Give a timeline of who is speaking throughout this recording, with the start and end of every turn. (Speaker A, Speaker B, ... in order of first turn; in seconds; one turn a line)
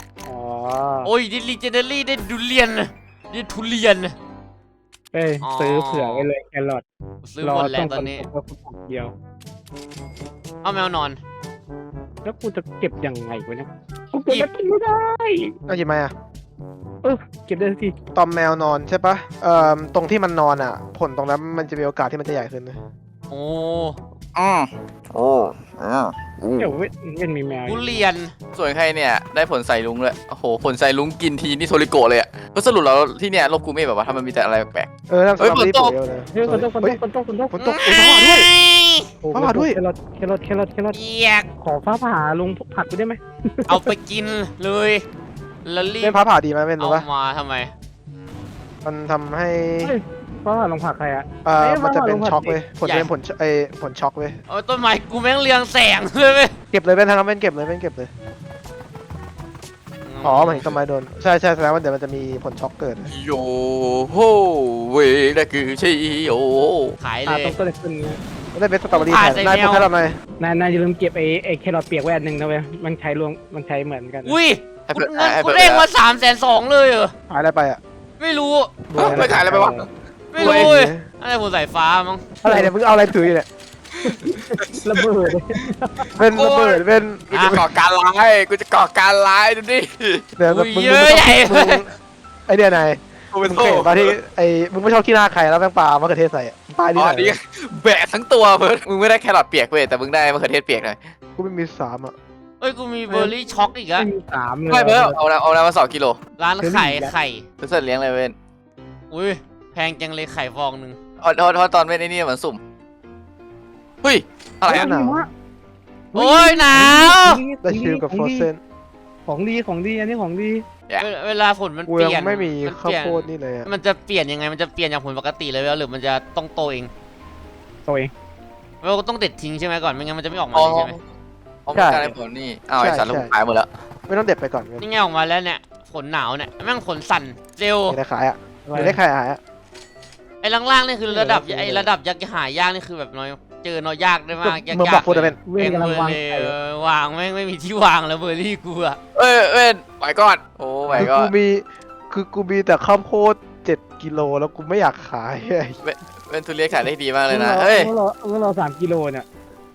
Speaker A: 0.2-1.1
Speaker B: 1.0-4.2
Speaker A: 5.1-6.8
Speaker B: 5.4-6.3
Speaker B: 7.2-8.2
Speaker A: 7.4-9.1
Speaker B: 10.6-11.2
Speaker A: 12.2-15.6
Speaker C: 15.7-16.1
Speaker A: 17.0-17.9
Speaker C: 18.1-22.8
Speaker B: 23.3-24.0
Speaker D: 24.3-26.7
Speaker A: 26.6-27.9
Speaker B: 27.6-28.3
Speaker D: 28.6-34.9
Speaker C: 35.1-37.0
Speaker D: 35.4-35.9
Speaker A: 36.3-37.5
Speaker C: 37.5-38.5
Speaker B: 37.6-39.1
Speaker C: 39.2-39.8
Speaker A: 39.3-41.0
Speaker B: 40.9-41.5
Speaker A: 41.6-43.9
Speaker B: 43.7-45.0
Speaker B: 45.6-46.2
Speaker C: 46.0-47.0
Speaker B: 46.8-47.7
Speaker C: 48.8-49.9
Speaker A: 49.8-52.6
Speaker C: 51.4-54.4
Speaker B: 52.8-53.1
Speaker B: 54.5-56.6
Speaker C: 56.7-58.1
Speaker B: 60.0-60.7
Speaker C: 60.2-63.1
Speaker D: 63.1-67.0
Speaker B: 67.0-67.5
Speaker A: 67.2-68.2
Speaker C: 68.5-70.2
Speaker B: 68.9-69.9
Speaker A: 70.4-74.4
Speaker B: 74.2-77.1
Speaker D: 74.9-75.8
Speaker C: 77.3-77.8
Speaker B: 78.2-78.8
Speaker C: 78.9-79.5
Speaker A: 78.9-79.8
Speaker D: 79.0-79.8
Speaker B: 80.3-82.3
Speaker C: 80.4-81.0
Speaker D: 80.4-80.7
Speaker C: 82.4-83.5
Speaker D: 84.0-85.0
Speaker A: 84.0-86.1
Speaker C: 86.1-87.3
Speaker D: 86.3-86.8
Speaker B: 87.3-87.7
Speaker D: 87.3-90.3
Speaker C: 90.4-91.9
Speaker B: 90.5-91.8
Speaker C: 92.5-97.3
Speaker D: 93.4-94.1
Speaker D: 96.9-101.0
Speaker C: 101.4-102.1
Speaker B: 102.6-104.1
Speaker A: 103.1-103.3
Speaker A: 104.0-105.2
Speaker D: 104.7-106.2
Speaker B: 106.4-107.4
Speaker A: 106.6-107.1
Speaker D: 107.6-108.3
Speaker B: 109.1-111.0
Speaker D: 111.2-112.6
Speaker D: 114.0-114.9
Speaker C: 114.7-115.3
Speaker A: 114.7-115.3
Speaker C: 116.1-116.8
Speaker B: 116.1-117.4
Speaker A: 116.7-118.5
Speaker C: 117.6-118.6
Speaker A: 119.3-120.6
Speaker B: 121.0-126.9
Speaker C: 121.9-123.7
Speaker A: 127.8-128.1
Speaker B: 128.8-131.0
Speaker D: 130.5-131.0
Speaker D: 131.7-133.7
Speaker C: 131.7-132.1
Speaker C: 132.8-133.3
Speaker C: 134.1-134.8
Speaker B: 134.8-138.0
Speaker C: 137.9-139.4
Speaker A: 138.7-139.0
Speaker B: 140.4-149.0
Speaker A: 141.1-141.9
Speaker C: 144.4-145.4
Speaker A: 145.5-146.5
Speaker D: 149.1-151.3
Speaker C: 150.9-155.8
Speaker D: 155.8-157.9
Speaker A: 157.3-159.2